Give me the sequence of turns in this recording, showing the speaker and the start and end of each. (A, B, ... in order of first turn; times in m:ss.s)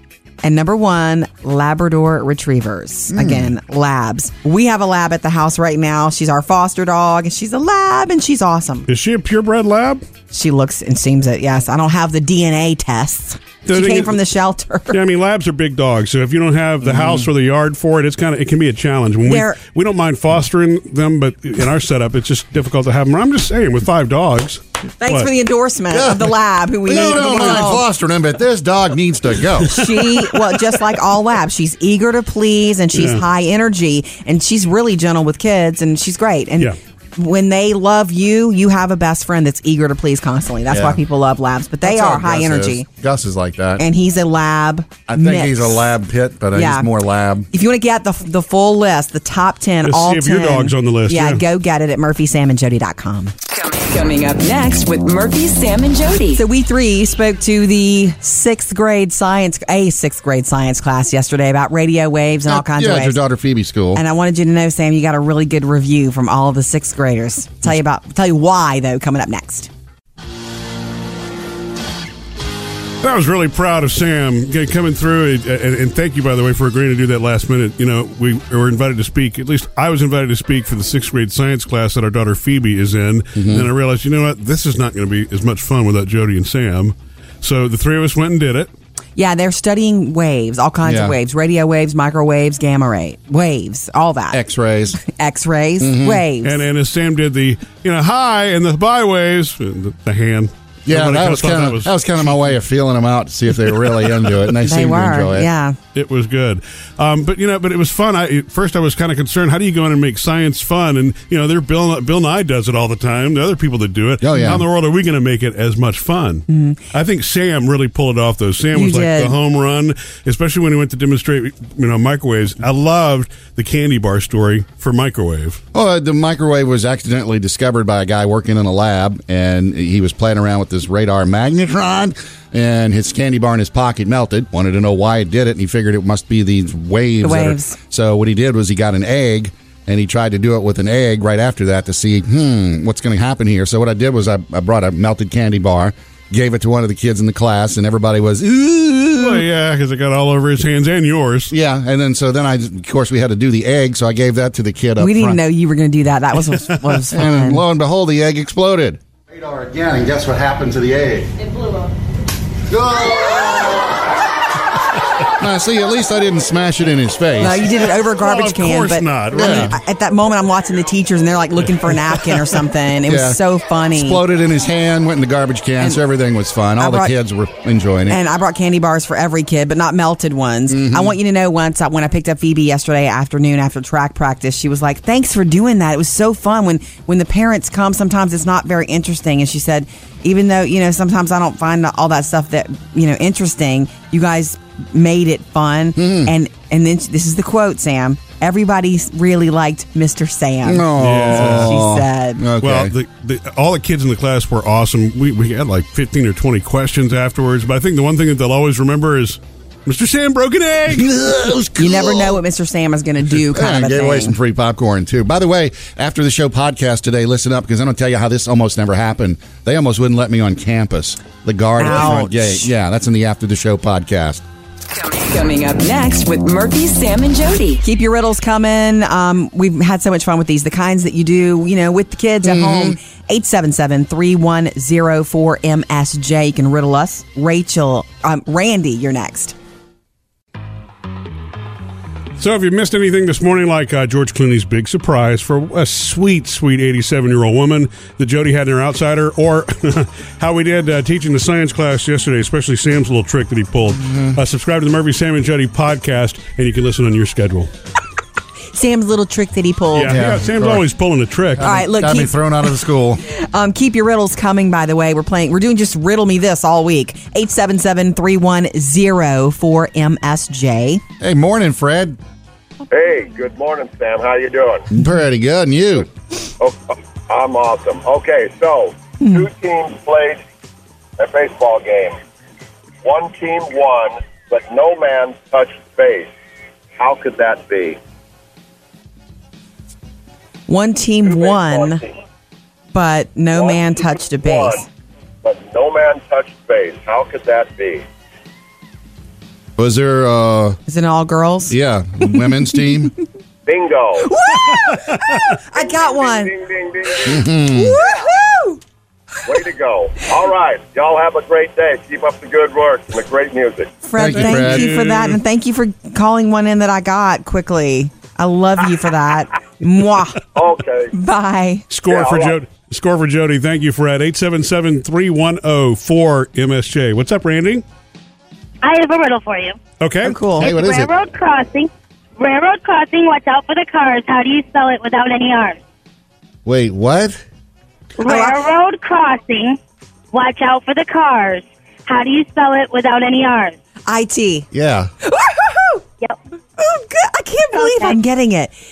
0:00.4-0:08.9 A
0:03.1-0:03.5 B
0:08.9-0:10.0 C
0:10.3-0:15.0 A
0:13.7-0:14.2 C
0:14.9-0:25.3 C
0:16.8-0:17.3 B
0:19.2-0:19.6 A
0:25.0-0:27.8 A
0:25.9-0:29.8 B
0:29.7-0:42.9 A
0:32.9-0:33.2 C
0:40.7-0:41.0 B
0:41.8-0:43.9 B
0:43.8-0:45.9 A
0:45.1-0:47.5 B
0:46.5-0:46.9 A
0:47.5-0:53.3 A
0:49.8-0:51.4 C
0:53.5-0:56.4 D
0:56.4-1:03.2 A
1:02.5-1:04.0 B
1:03.9-1:09.7 A
1:13.0-1:28.7 C
1:23.4-1:23.7 B
1:29.2-1:34.4 A
1:30.8-1:31.2 B
1:34.3-1:35.0 B
1:35.0-1:36.6 A
1:35.8-1:36.2 B
1:36.4-1:42.3 C
1:40.9-1:45.5 B
1:44.6-1:45.8 A
1:45.9-2:05.6 C
1:54.2-1:54.6 B
1:56.5-1:56.8 A
1:58.7-1:59.4 A
2:05.7-2:29.4 B
2:17.2-2:17.8 A
2:29.2-2:31.5 C
2:31.5-2:35.4 B
2:35.0-2:37.6 A
2:37.1-2:41.3 B
2:42.7-2:44.0 B
2:45.3-2:47.7 B
2:47.4-2:54.2 A
2:48.2-2:49.7 C
2:49.3-2:49.8 B
2:53.1-2:53.4 B
2:53.9-2:58.2 B
2:56.8-2:57.1 A
2:58.1-3:22.4 A
3:00.7-3:01.2 B
3:16.0-3:16.3 B
3:20.6-3:22.9 B
3:21.0-3:21.8 C
3:22.6-3:31.1 C
3:30.9-3:32.4 B
3:31.8-3:34.4 A
3:33.3-3:44.4 B
3:41.8-3:42.7 A
3:44.9-3:47.8 D
3:47.8-3:59.6 A
3:52.4-3:53.0 B
4:02.4-4:17.7 C
4:14.0-4:14.4 B
4:18.7-4:20.2 A
4:19.9-4:21.7 C
4:20.0-4:20.8 B
4:21.6-4:23.2 B
4:21.6-4:22.7 A
4:23.3-4:31.0 A
4:31.2-4:32.2 B
4:32.9-4:34.9 E
4:34.9-4:36.1 B
4:36.6-4:40.4 E
4:39.2-4:39.5 A
4:41.2-4:42.2 E
4:43.0-4:46.3 E
4:47.0-4:48.0 E
4:50.7-4:52.0 A
4:51.2-4:52.1 E
4:52.9-4:54.9 A
4:53.5-4:54.8 E
4:55.4-4:58.0 E
4:59.8-5:00.8 B
5:00.9-5:02.5 A
5:01.7-5:03.1 B
5:03.7-5:04.3 E
5:04.2-5:06.5 A
5:04.7-5:05.5 C
5:05.8-5:07.5 E
5:07.2-5:08.0 B
5:07.7-5:08.8 A
5:09.5-5:14.0 E
5:14.0-5:20.5 A
5:14.2-5:15.0 B
5:14.2-5:15.4 C
5:20.6-5:21.1 E
5:21.1-5:21.9 A
5:21.9-5:27.8 C
5:22.1-5:22.6 E
5:28.8-5:29.8 F
5:30.0-5:30.9 C
5:30.2-5:30.7 A
5:30.6-5:31.1 B
5:30.7-5:35.8 F
5:36.6-5:37.4 B
5:38.2-5:39.8 F
5:38.2-5:38.6 A
5:40.3-5:43.8 F
5:44.1-5:44.7 A
5:44.7-5:45.1 B
5:45.2-5:46.0 A
5:46.8-5:48.7 A
5:47.7-5:48.2 F